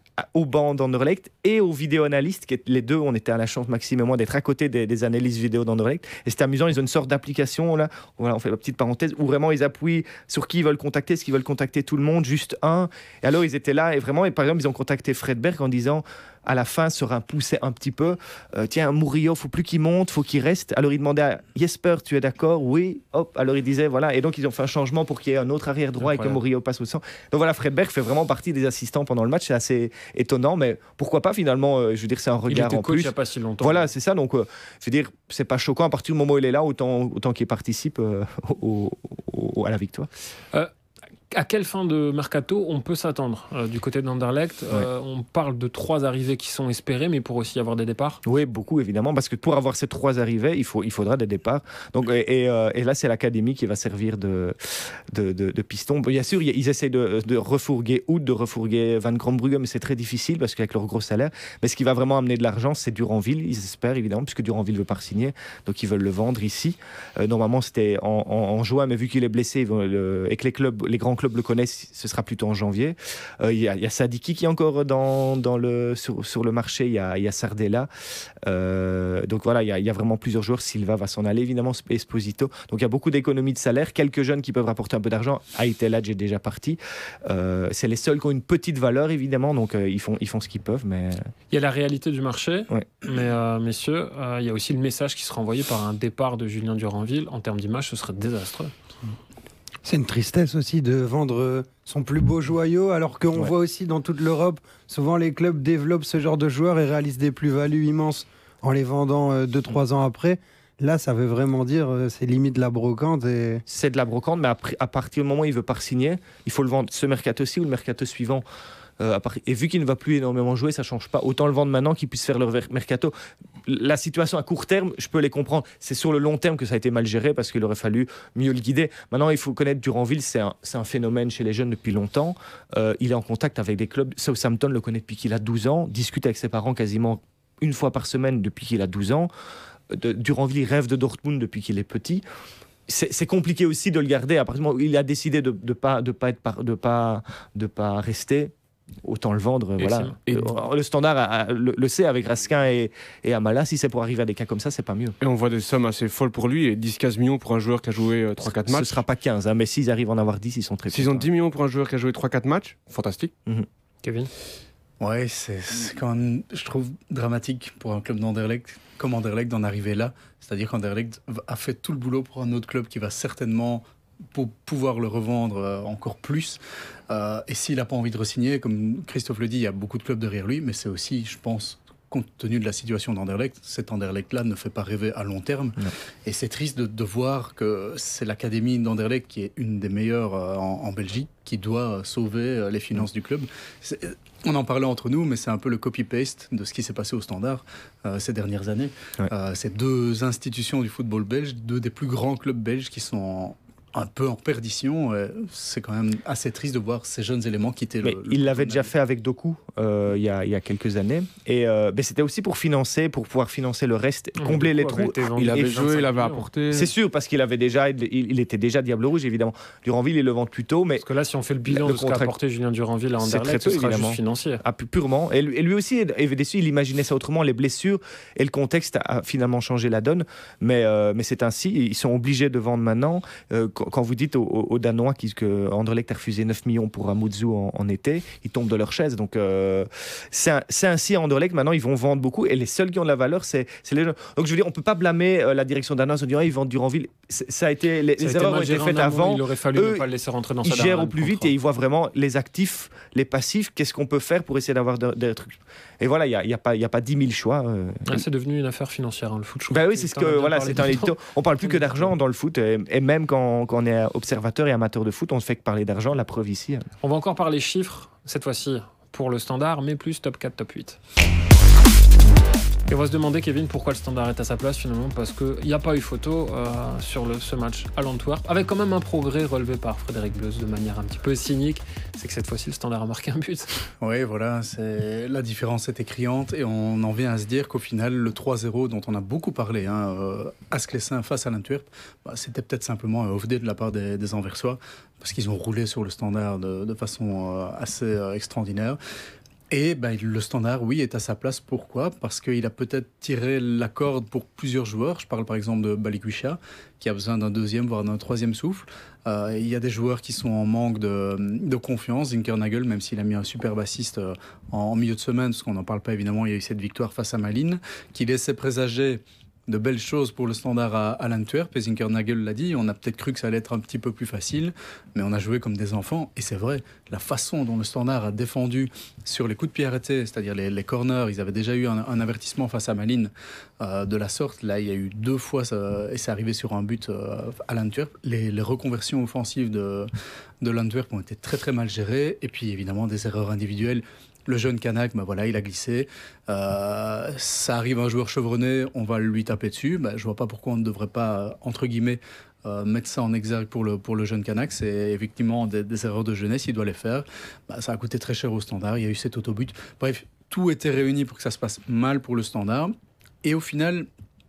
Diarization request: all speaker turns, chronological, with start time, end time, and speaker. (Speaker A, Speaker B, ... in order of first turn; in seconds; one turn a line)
Speaker A: 0.2-40.1
Speaker B: 26.0-26.4
Speaker B: 32.5-33.9
Speaker B: 41.3-48.2
Speaker A: 48.2-54.5
Speaker A: 55.1-77.9
Speaker A: 78.4-91.2
Speaker B: 91.5-98.7
Speaker C: 99.8-113.6
Speaker A: 113.7-118.4
Speaker A: 119.0-123.1
Speaker A: 123.7-139.3
Speaker A: 139.9-142.2
Speaker A: 142.9-148.5
Speaker A: 149.0-155.2
Speaker B: 149.8-150.1
Speaker D: 150.3-150.5
Speaker D: 155.2-159.0
Speaker A: 158.6-161.3
Speaker D: 160.9-163.3
Speaker B: 164.0-164.3
Speaker E: 165.0-208.9
Speaker A: 208.0-215.9
Speaker B: 214.4-216.4
Speaker D: 215.4-216.9
Speaker A: 216.7-221.0
Speaker B: 221.0-224.6
Speaker A: 221.7-222.3
Speaker A: 223.2-250.1
Speaker B: 248.2-251.5
Speaker A: 250.6-258.2
Speaker B: 258.1-262.1
Speaker A: 259.7-266.9
Speaker B: 267.0-271.0
Speaker B: 272.9-283.7
Speaker E: 284.0-299.0
Speaker E: 299.7-340.1
Speaker E: 340.6-362.9
Speaker E: 363.4-364.1